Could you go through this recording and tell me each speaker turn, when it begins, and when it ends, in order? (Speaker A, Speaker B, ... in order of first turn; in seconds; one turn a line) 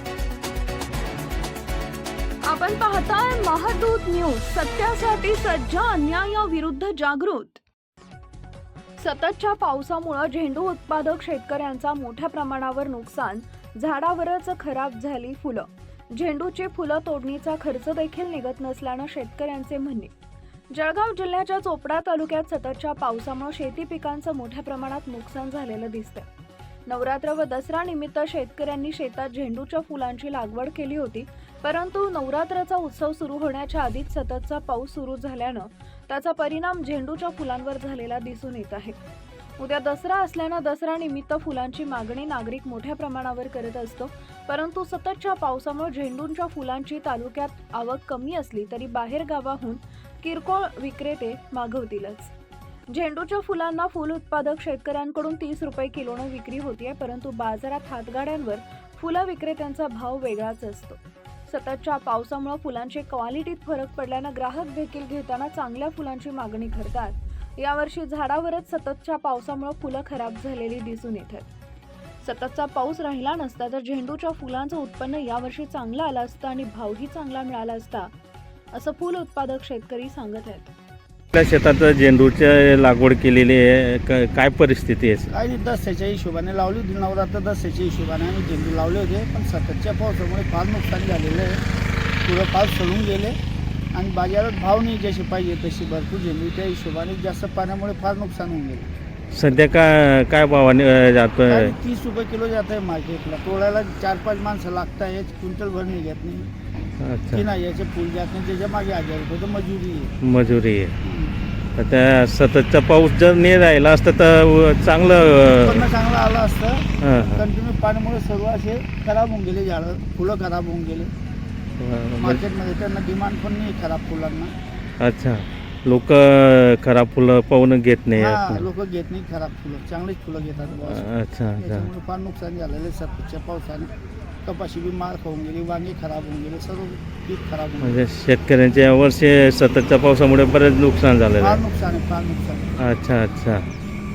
Speaker A: 2.5-7.6
Speaker A: 9.0-20.1
Speaker A: 20.7-26.3
Speaker A: 26.9-39.0
Speaker A: 39.6-52.3
Speaker A: 52.9-71.5
Speaker A: 72.2-78.1
Speaker A: 78.7-80.7
Speaker B: 81.3-85.3
Speaker C: 85.3-91.6
Speaker C: 92.2-93.4
Speaker C: 94.0-98.9
Speaker B: 99.3-101.7
Speaker C: 101.5-106.5
Speaker B: 107.0-107.5
Speaker C: 107.3-110.1
Speaker B: 110.2-110.9
Speaker C: 111.0-111.3
Speaker B: 111.8-115.9
Speaker C: 115.5-121.1
Speaker B: 117.0-117.4
Speaker B: 121.8-122.4
Speaker C: 122.2-124.5
Speaker B: 125.0-128.7
Speaker C: 128.2-133.9
Speaker B: 130.8-131.9
Speaker C: 134.4-138.0
Speaker B: 137.8-141.6
Speaker C: 141.4-142.7
Speaker B: 142.8-143.7